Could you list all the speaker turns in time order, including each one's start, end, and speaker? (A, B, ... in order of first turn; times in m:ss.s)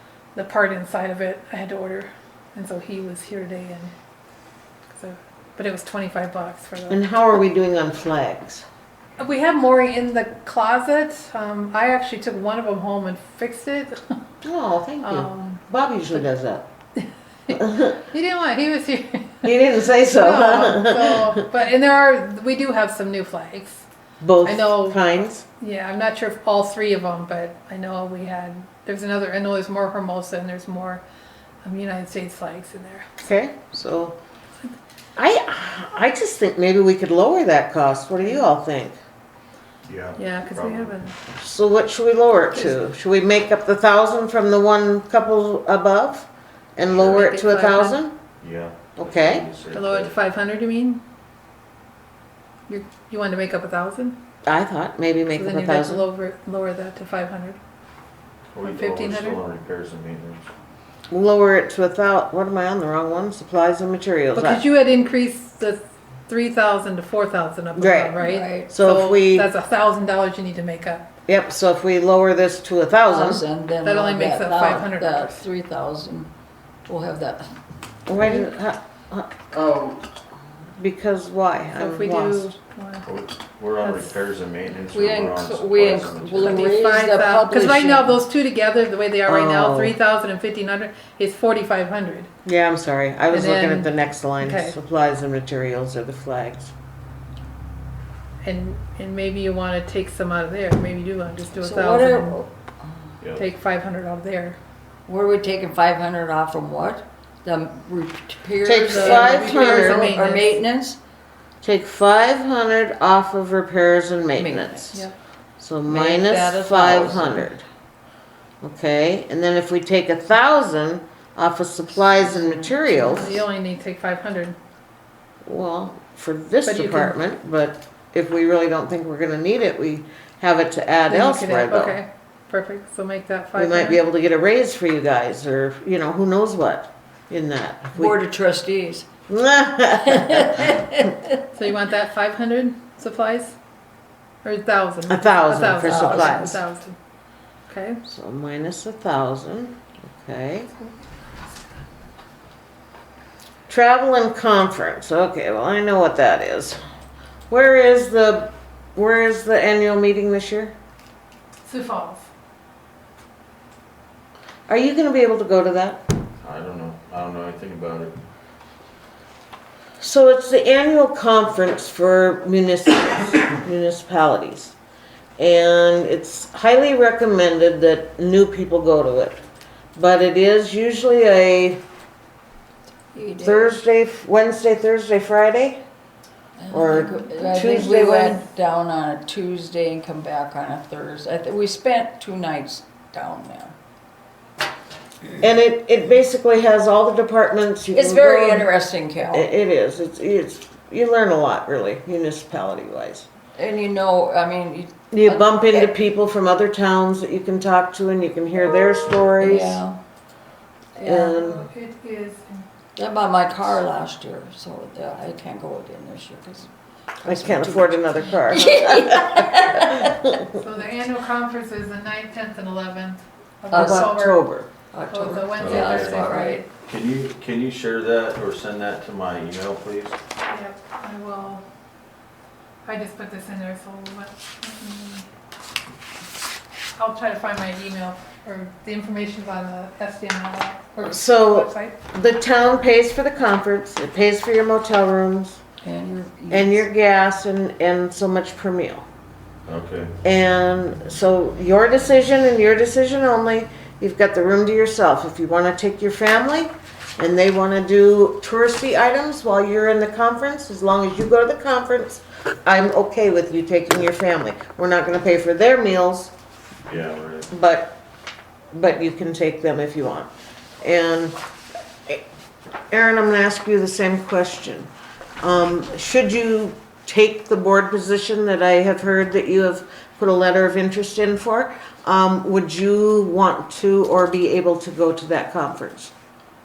0:00.4-0:03.9 A
0:04.9-0:07.0 A
0:06.9-0:08.6 B
0:09.2-0:14.0 A
0:14.4-0:16.7 B
0:15.0-0:15.6 A
0:17.5-0:19.5 A
0:17.5-0:18.0 B
0:19.4-0:21.4 B
0:20.1-0:23.8 A
0:24.2-0:25.4 B
0:24.4-0:31.0 A
0:31.6-0:33.1 A
0:33.2-0:34.2 B
0:35.2-0:39.0 B
0:39.9-0:40.9 C
0:40.2-0:41.2 A
0:41.4-0:48.2 B
0:46.9-0:47.3 C
0:47.1-0:48.0 A
0:48.4-0:50.1 C
0:49.0-0:49.4 B
0:49.7-0:51.0 A
0:52.7-0:54.2 A
0:54.5-0:56.0 B
0:55.4-0:57.6 A
0:58.5-1:00.4 C
0:58.6-0:59.4 A
1:01.1-1:04.6 B
1:04.4-1:11.1 A
1:07.8-1:08.2 B
1:08.2-1:08.7 D
1:08.7-1:09.5 B
1:11.3-1:13.4 B
1:13.1-1:16.3 D
1:13.8-1:15.5 A
1:16.9-1:17.5 D
1:18.1-1:19.3 B
1:19.5-1:20.0 C
1:20.8-1:22.5 B
1:21.8-1:23.1 A
1:23.0-1:26.7 C
1:23.8-1:24.1 A
1:24.9-1:28.2 D
1:26.4-1:32.3 A
1:29.2-1:30.0 B
1:32.4-1:36.7 B
1:33.3-1:34.8 A
1:38.4-1:42.4 A
1:41.6-1:42.5 D
1:43.4-1:44.6 A
1:45.1-1:51.0 D
1:48.6-1:50.1 B
1:48.8-1:50.6 A
1:51.6-1:55.0 B
1:54.4-1:55.0 D
1:55.6-1:57.6 B
1:55.9-1:57.5 D
1:58.6-2:03.4 B
2:02.4-2:03.2 D
2:03.1-2:04.6 A
2:05.5-2:12.0 B
2:06.6-2:07.2 A
2:11.1-2:14.0 A
2:13.6-2:18.2 B
2:18.0-2:19.1 D
2:19.3-2:20.7 B
2:20.2-2:21.2 D
2:21.5-2:23.6 A
2:24.4-2:27.0 A
2:25.1-2:26.6 B
2:25.8-2:26.6 D
2:27.7-2:28.0 A
2:28.1-2:30.7 B
2:33.7-2:36.8 B
2:37.5-2:40.7 B
2:41.7-2:42.3 A
2:44.7-2:46.0 B
2:46.4-2:48.2 C
2:50.0-2:54.8 B
2:55.4-2:59.4 B
3:00.0-3:01.8 B
3:03.1-3:03.8 D
3:03.4-3:05.8 B
3:06.6-3:13.8 D
3:06.7-3:08.4 B
3:15.4-3:18.7 B
3:17.9-3:19.5 D
3:19.3-3:23.2 B
3:23.6-3:25.9 D
3:25.1-3:29.8 B
3:29.4-3:30.0 D
3:31.0-3:31.4 D
3:31.0-3:31.6 B
3:31.3-3:32.6 A
3:33.0-3:40.1 D
3:37.2-3:40.4 B
3:40.5-3:44.4 A
3:43.7-3:44.2 D
3:43.8-3:44.7 B
3:44.9-3:46.6 D
3:45.1-3:46.7 A
3:45.6-3:46.3 C
3:46.9-3:50.2 C
3:50.5-3:51.6 A
3:52.9-3:55.2 A
3:57.0-4:02.0 A
4:01.0-4:05.6 B
4:05.8-4:06.8 D
4:06.5-4:09.1 B
4:09.7-4:10.1 C
4:10.2-4:26.3 B
4:26.9-4:27.5 C
4:27.5-4:28.0 B
4:28.7-4:30.3 B
4:30.8-4:31.4 B
4:32.9-4:34.9 B
4:35.4-4:46.1 B